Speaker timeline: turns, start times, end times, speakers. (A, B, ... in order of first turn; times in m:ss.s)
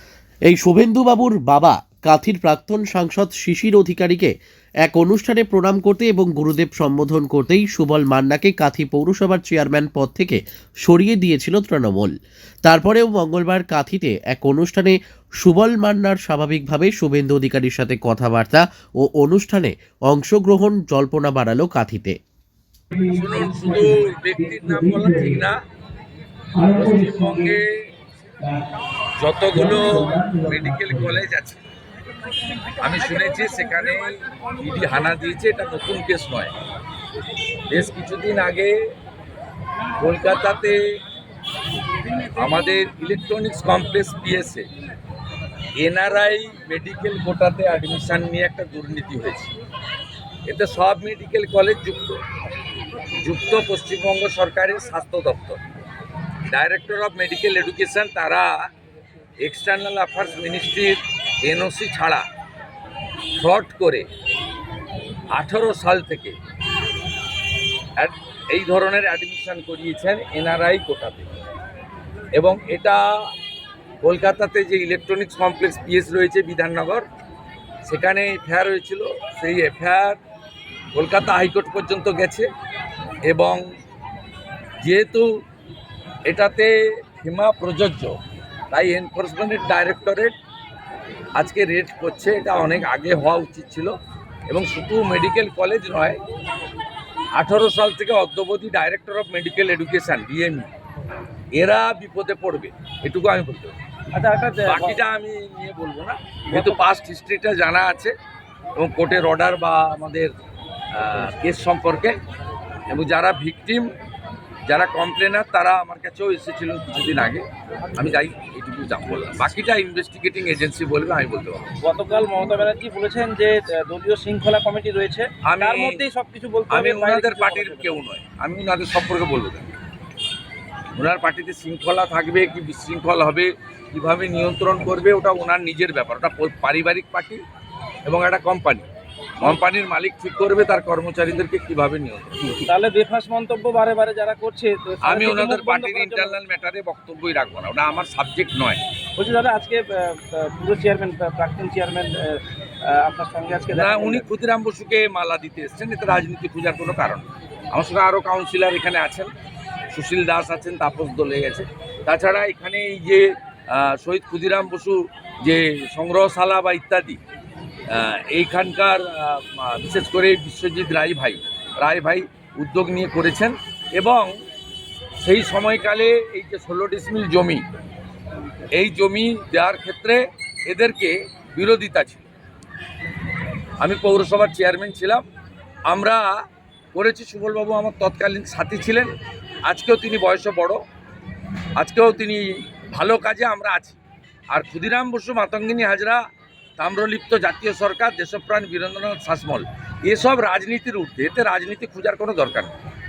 0:00.5-0:12.1 A
0:12.6-0:22.2 A
0:23.1-0:25.6 B
0:24.7-0:25.0 C
0:26.6-0:27.5 C
0:26.7-0:27.6 B
0:29.2-0:31.6 B
0:29.8-0:30.6 C
0:32.8-0:36.5 B
0:37.7-0:38.7 B
0:40.0-0:40.8 B
0:42.3-0:44.6 B
0:45.8-0:49.5 B
0:50.5-0:52.2 B
0:53.2-0:55.6 B
0:56.5-0:58.5 B
0:59.4-1:02.2 B
1:03.4-1:04.0 B
1:05.3-1:06.4 B
1:08.0-1:11.3 B
1:12.4-1:13.0 B
1:14.0-1:17.0 B
1:17.8-1:20.2 B
1:21.0-1:22.5 B
1:23.3-1:23.6 B
1:24.8-1:25.2 B
1:26.3-1:28.1 B
1:28.7-1:30.4 B
1:31.4-1:33.9 B
1:34.5-1:36.2 B
1:37.4-1:40.7 B
1:41.6-1:43.7 B
1:44.1-1:45.0 C
1:44.6-1:48.1 B
1:46.5-1:46.8 C
1:48.8-1:50.3 B
1:50.9-1:52.2 B
1:52.9-1:53.9 B
1:54.7-1:57.4 B
1:57.9-2:01.7 B
2:01.8-2:08.0 C
2:05.4-2:06.0 B
2:06.7-2:09.7 B
2:11.0-2:17.4 B
2:18.1-2:18.9 B
2:19.4-2:22.7 B
2:22.6-2:26.3 C
2:25.0-2:28.8 B
2:29.2-2:34.3 C
2:33.7-2:39.3 B
2:39.9-2:47.2 B
2:47.9-2:54.4 B
2:55.2-2:57.6 B
2:58.8-3:02.2 B
3:03.8-3:05.2 B
3:05.9-3:06.3 B
3:06.9-3:09.1 B
3:09.7-3:10.8 B
3:11.8-3:14.0 B
3:14.5-3:16.2 B
3:16.8-3:22.7 B